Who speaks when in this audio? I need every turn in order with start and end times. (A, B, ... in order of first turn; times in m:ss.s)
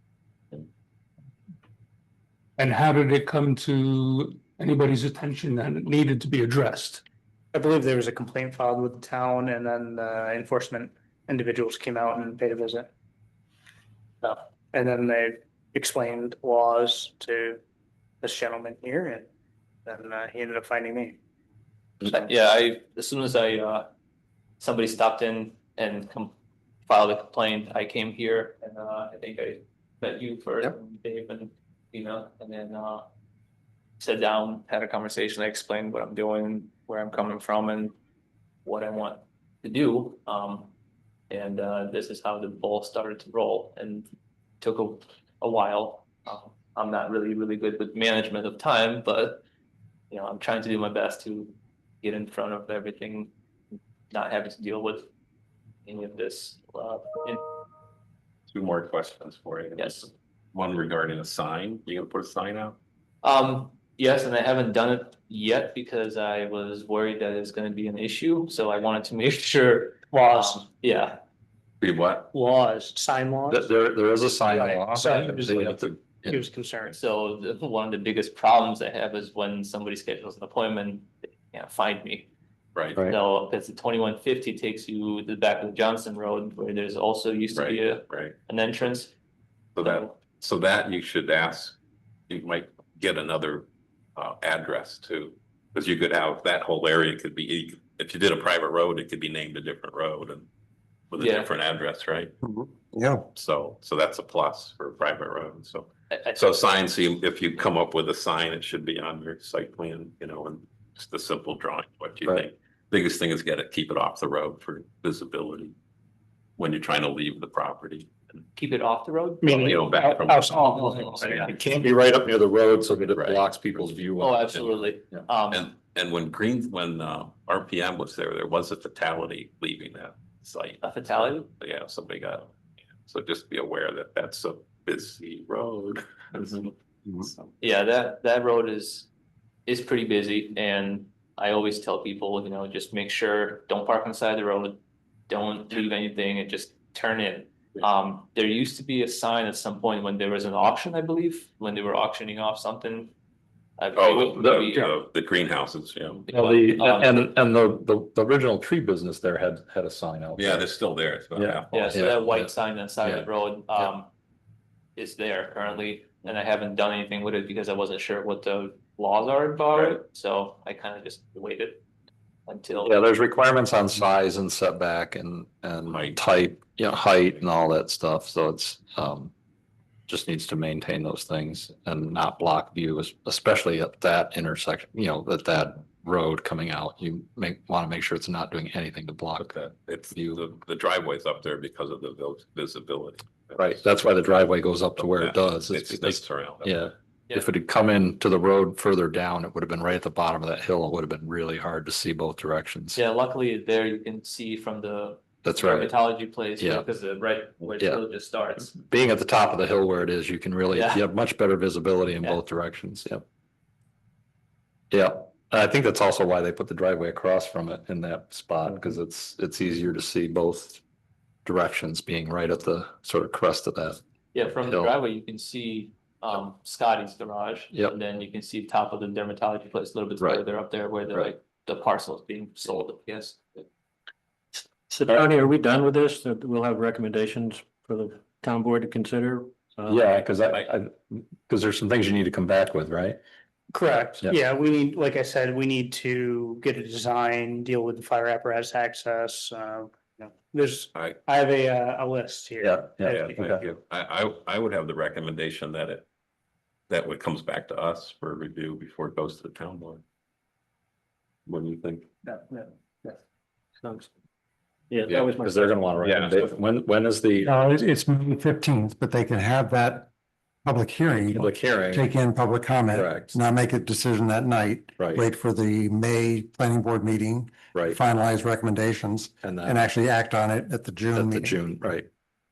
0:02.6-0:07.0 A
0:07.5-0:12.9 B
0:14.2-0:17.6 B
0:18.2-0:19.3 B
0:19.8-0:21.2 B
0:22.0-0:23.9 C
0:24.6-0:26.3 C
0:26.9-0:33.1 C
0:34.0-0:37.9 C
0:38.6-0:40.7 C
0:41.3-0:44.1 C
0:44.6-0:49.4 C
0:50.1-0:53.3 C
0:54.1-0:55.1 C
0:55.8-0:57.4 C
0:58.5-1:02.8 D
0:59.8-1:00.1 C
1:03.2-1:11.2 C
1:10.1-1:10.6 B
1:11.8-1:12.3 D
1:12.3-1:13.7 B
1:13.5-1:16.4 E
1:14.6-1:15.7 B
1:16.3-1:17.0 B
1:16.9-1:22.3 C
1:22.7-1:23.0 D
1:23.1-1:29.1 C
1:27.5-1:28.3 D
1:29.7-1:31.8 D
1:29.8-1:30.1 C
1:32.3-1:40.5 D
1:41.1-1:42.3 D
1:41.2-1:41.5 C
1:42.6-1:43.2 B
1:43.3-1:55.7 D
1:46.1-1:46.4 C
1:56.6-1:58.4 D
1:58.5-1:59.9 C
1:59.4-2:01.1 B
1:59.7-2:01.5 D
2:00.9-2:01.5 C
2:01.3-2:04.6 E
2:03.1-2:04.0 D
2:04.2-2:05.7 C
2:05.5-2:16.7 D
2:10.8-2:11.5 C
2:17.6-2:19.1 C
2:19.6-2:33.1 C
2:33.8-2:35.0 C
2:33.9-2:36.3 D
2:36.3-2:37.3 C
2:36.3-2:40.7 E
2:40.4-2:42.2 D
2:41.3-2:43.3 E
2:41.7-2:44.1 C
2:45.0-2:51.8 C
2:49.7-2:50.0 D
2:52.4-2:53.0 C
2:52.8-2:59.3 E
2:55.8-2:56.4 D
3:00.1-3:09.5 E
3:09.4-3:13.8 D
3:10.1-3:10.4 E
3:13.6-3:23.0 E
3:15.0-3:16.7 D
3:22.9-3:28.7 C
3:25.4-3:26.9 E
3:27.7-3:28.0 E
3:28.6-3:33.2 E
3:30.7-3:31.0 C
3:34.9-3:40.8 E
3:41.4-3:44.9 E
3:44.3-3:53.4 C
3:47.7-3:48.0 E
3:54.5-4:00.2 F
3:59.8-4:03.2 E
4:03.7-4:12.8 B
4:12.6-4:13.6 E
4:13.0-4:16.0 D
4:16.9-4:20.0 D
4:21.5-4:22.1 D
4:23.8-4:24.1 F
4:24.9-4:25.8 F
4:25.1-4:25.3 D
4:25.4-4:27.5 E
4:26.0-4:26.4 D
4:27.4-4:29.2 B
4:28.9-4:30.1 G
4:30.7-4:41.6 G
4:31.3-4:32.1 E
4:32.9-4:33.4 E
4:33.1-4:34.0 B
4:34.7-4:36.1 B
4:37.7-4:38.0 E
4:38.0-4:38.6 B
4:39.4-4:39.8 E
4:41.1-4:42.1 E